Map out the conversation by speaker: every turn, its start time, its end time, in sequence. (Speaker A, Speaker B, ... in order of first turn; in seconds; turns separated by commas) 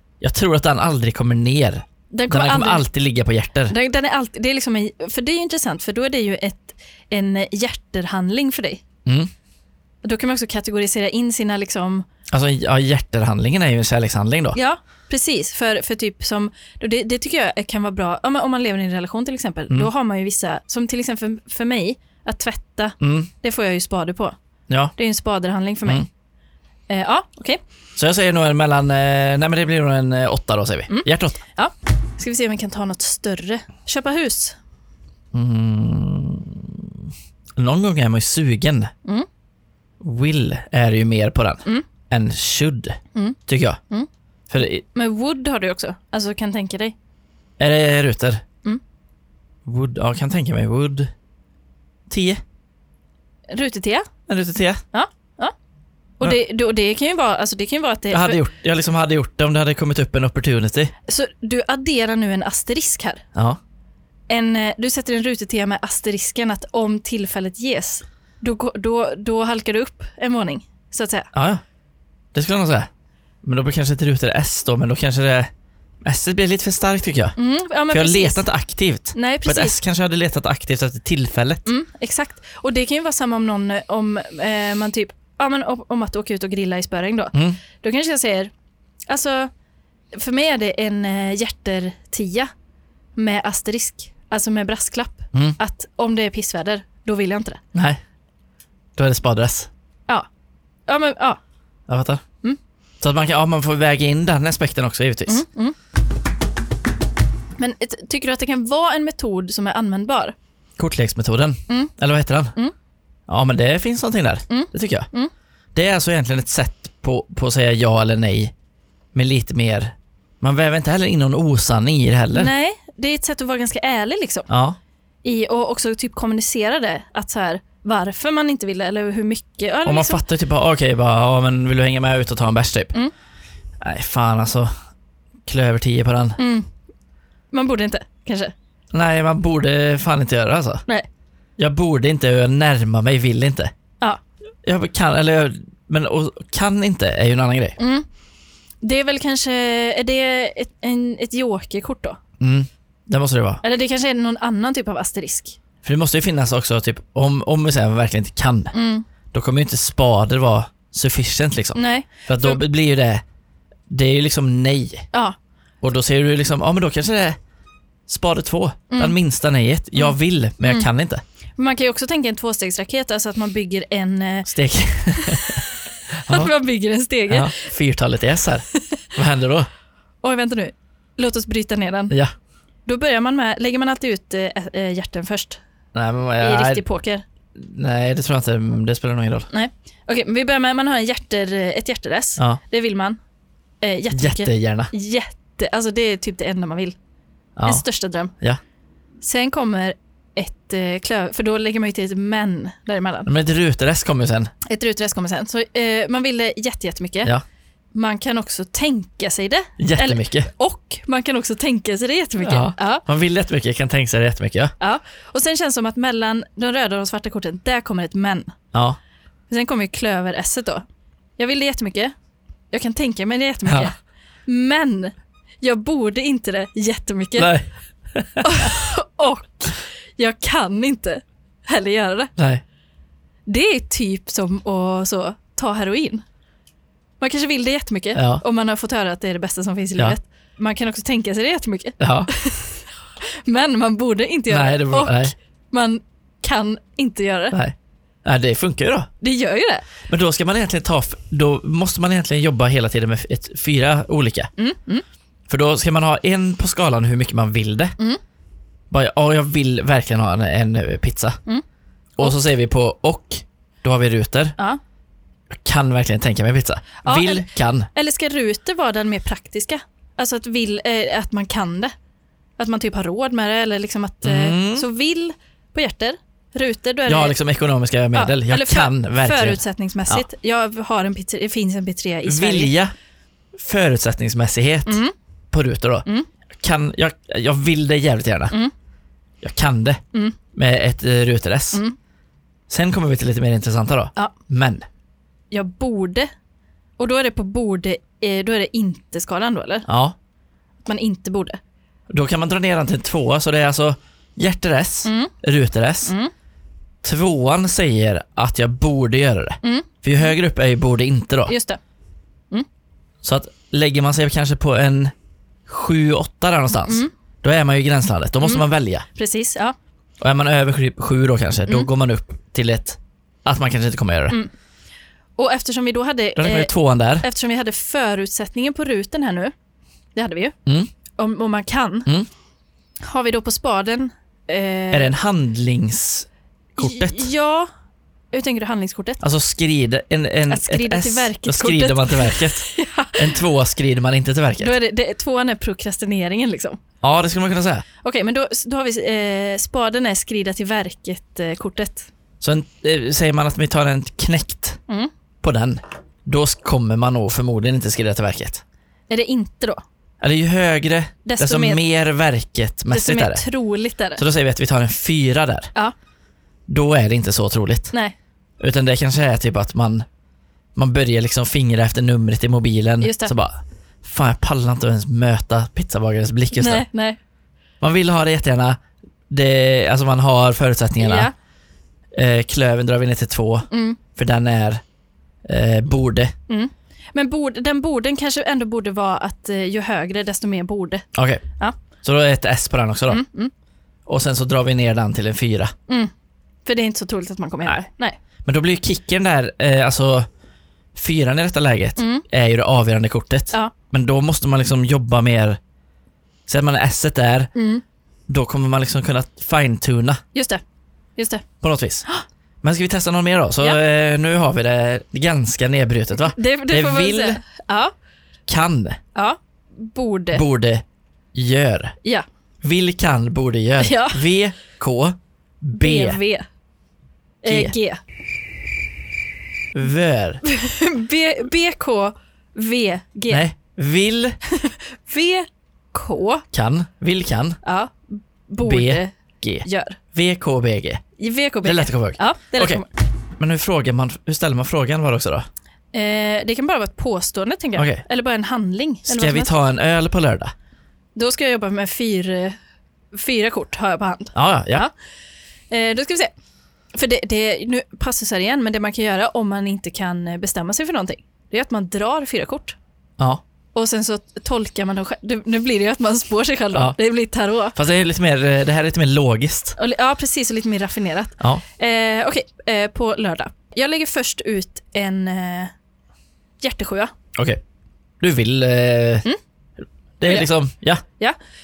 Speaker A: 0.2-3.7, Speaker B: 2.1-2.8, Speaker B: 3.7-8.8, Speaker B: 10.0-12.1, Speaker A: 12.3-14.6, Speaker B: 14.5-24.3, Speaker A: 23.0-23.3, Speaker B: 25.0-26.1, Speaker B: 26.9-27.6, Speaker A: 27.9-31.4, Speaker B: 30.9-34.6, Speaker A: 35.3-37.0, Speaker A: 37.6-38.9, Speaker A: 40.0-43.8, Speaker A: 44.5-44.8, Speaker B: 44.9-46.9, Speaker A: 47.6-48.4, Speaker A: 49.6-51.1, Speaker A: 52.1-52.4, Speaker B: 53.5-54.1, Speaker A: 54.3-54.8, Speaker B: 54.9-55.5, Speaker B: 56.2-58.4, Speaker A: 58.1-60.9, Speaker B: 61.1-63.2, Speaker B: 64.3-71.3, Speaker A: 71.3-71.6, Speaker A: 72.3-72.9, Speaker A: 73.4-75.5, Speaker A: 76.0-77.3, Speaker B: 77.3-78.4, Speaker A: 77.9-81.7, Speaker B: 79.1-79.8, Speaker B: 81.7-88.5, Speaker A: 87.3-87.6, Speaker B: 89.1-89.5, Speaker B: 90.1-92.5, Speaker B: 93.2-97.6, Speaker A: 97.7-98.0, Speaker A: 99.0-99.7, Speaker B: 100.9-101.4, Speaker A: 101.9-102.2, Speaker A: 103.0-105.4, Speaker B: 105.3-105.8, Speaker B: 107.6-110.3, Speaker A: 110.8-112.5, Speaker A: 113.3-115.1, Speaker B: 114.5-115.3, Speaker A: 115.7-118.5, Speaker A: 119.1-122.5, Speaker B: 122.3-124.5, Speaker A: 124.5-124.8, Speaker B: 125.2-130.2, Speaker A: 129.8-132.9, Speaker A: 133.8-134.7, Speaker A: 135.4-136.4, Speaker B: 136.4-136.7, Speaker B: 137.5-138.5, Speaker A: 138.9-140.8, Speaker A: 141.6-143.7, Speaker A: 144.6-147.8, Speaker B: 147.8-148.1, Speaker B: 148.8-152.2, Speaker A: 152.4-153.6, Speaker B: 153.6-155.6, Speaker A: 155.8-158.7, Speaker B: 158.7-159.1, Speaker A: 159.3-163.2, Speaker B: 161.7-162.6, Speaker A: 163.9-165.1, Speaker A: 165.8-167.4, Speaker A: 168.1-171.2, Speaker B: 169.9-170.9, Speaker B: 171.6-174.5, Speaker A: 174.4-176.5, Speaker B: 175.1-175.7, Speaker B: 176.3-177.6, Speaker A: 177.3-179.7, Speaker B: 180.2-182.1, Speaker B: 182.8-185.6, Speaker A: 185.9-186.8, Speaker B: 186.4-187.2, Speaker A: 187.6-189.5, Speaker B: 189.5-193.2, Speaker B: 193.8-196.9, Speaker A: 194.1-194.9, Speaker A: 197.6-197.8, Speaker B: 197.7-198.3, Speaker B: 199.2-203.3, Speaker A: 203.2-204.5, Speaker B: 204.6-207.3, Speaker B: 207.9-213.0, Speaker A: 209.8-210.5, Speaker A: 212.4-214.7, Speaker B: 214.8-218.5, Speaker A: 218.7-219.0, Speaker B: 219.5-220.8, Speaker B: 221.4-222.1, Speaker B: 222.7-227.5, Speaker A: 223.7-223.9, Speaker A: 227.4-228.7, Speaker B: 228.4-232.3, Speaker A: 232.4-232.6, Speaker B: 233.4-236.2, Speaker B: 237.2-247.6, Speaker A: 238.1-238.4, Speaker A: 242.0-242.3, Speaker A: 244.5-245.3, Speaker A: 247.5-249.1, Speaker B: 249.2-249.8, Speaker A: 250.1-254.5, Speaker B: 254.6-255.0, Speaker A: 255.5-257.9, Speaker A: 258.9-261.4, Speaker A: 262.2-264.6, Speaker A: 265.5-267.9, Speaker B: 267.0-271.9, Speaker B: 272.6-277.4, Speaker A: 274.2-274.9, Speaker A: 277.1-280.2, Speaker B: 278.1-282.7, Speaker A: 282.2-282.9, Speaker A: 283.5-285.0, Speaker B: 284.9-285.1, Speaker A: 285.5-286.1, Speaker A: 286.6-288.5, Speaker A: 289.4-290.0, Speaker A: 290.5-291.8, Speaker A: 292.7-294.9, Speaker B: 295.5-296.3, Speaker B: 297.0-299.9, Speaker A: 299.9-300.1, Speaker B: 300.8-301.6, Speaker A: 302.1-306.1, Speaker B: 305.0-305.3, Speaker B: 306.1-306.3, Speaker A: 307.0-311.5, Speaker B: 309.6-310.3, Speaker B: 311.5-311.8, Speaker A: 313.2-315.1, Speaker A: 315.7-319.1, Speaker B: 316.7-317.1, Speaker B: 318.4-319.8, Speaker A: 320.2-324.4, Speaker B: 325.4-326.7, Speaker A: 326.4-327.3, Speaker B: 327.2-329.5, Speaker B: 330.1-330.6, Speaker B: 331.1-332.1, Speaker B: 333.0-335.1, Speaker A: 334.9-337.3, Speaker B: 336.8-337.7, Speaker B: 338.3-339.2, Speaker A: 339.2-344.7, Speaker B: 340.5-343.4, Speaker B: 344.6-346.8, Speaker A: 347.0-347.8, Speaker B: 348.0-352.1, Speaker A: 352.4-354.8, Speaker A: 355.4-358.6, Speaker B: 359.1-359.8, Speaker A: 360.2-363.4, Speaker B: 361.2-361.8, Speaker B: 362.9-364.2, Speaker A: 364.2-365.7, Speaker A: 366.7-367.9, Speaker A: 368.6-370.1, Speaker A: 370.8-376.8, Speaker B: 373.0-373.3, Speaker B: 376.6-377.2, Speaker A: 377.8-381.3, Speaker B: 381.0-381.3, Speaker A: 382.1-384.8, Speaker B: 383.7-384.0, Speaker A: 385.4-386.3, Speaker B: 386.5-391.1, Speaker A: 391.1-391.4, Speaker A: 392.0-393.2, Speaker B: 393.1-393.5, Speaker A: 394.1-395.7, Speaker B: 396.6-398.2, Speaker A: 398.4-400.3, Speaker A: 400.9-405.6, Speaker B: 402.0-402.2, Speaker A: 406.5-407.5, Speaker B: 407.5-407.8, Speaker A: 408.3-410.2, Speaker B: 410.3-410.6, Speaker B: 411.1-411.4, Speaker A: 411.6-412.1, Speaker A: 412.6-417.4, Speaker B: 416.2-417.9, Speaker A: 418.5-419.0, Speaker B: 419.1-420.4, Speaker A: 420.3-421.9, Speaker A: 422.6-426.2, Speaker B: 423.8-424.2, Speaker B: 425.8-426.4, Speaker B: 427.4-428.0, Speaker A: 427.4-427.7, Speaker A: 429.7-430.4, Speaker B: 430.4-433.4, Speaker A: 433.3-434.4, Speaker B: 434.4-436.4, Speaker A: 436.5-437.6, Speaker B: 437.6-439.1, Speaker A: 438.6-441.0, Speaker B: 439.6-440.0, Speaker B: 441.2-442.8, Speaker A: 441.6-442.8, Speaker A: 443.4-445.5, Speaker B: 445.9-449.5, Speaker A: 447.8-448.0, Speaker A: 449.1-450.5, Speaker B: 451.1-452.6, Speaker B: 453.1-454.9, Speaker A: 454.3-454.9, Speaker B: 455.7-456.3, Speaker B: 456.9-462.8, Speaker B: 463.7-467.8, Speaker A: 467.7-469.8, Speaker B: 469.8-475.7, Speaker B: 476.6-477.1, Speaker A: 477.3-477.6, Speaker A: 478.2-479.3, Speaker A: 480.2-481.0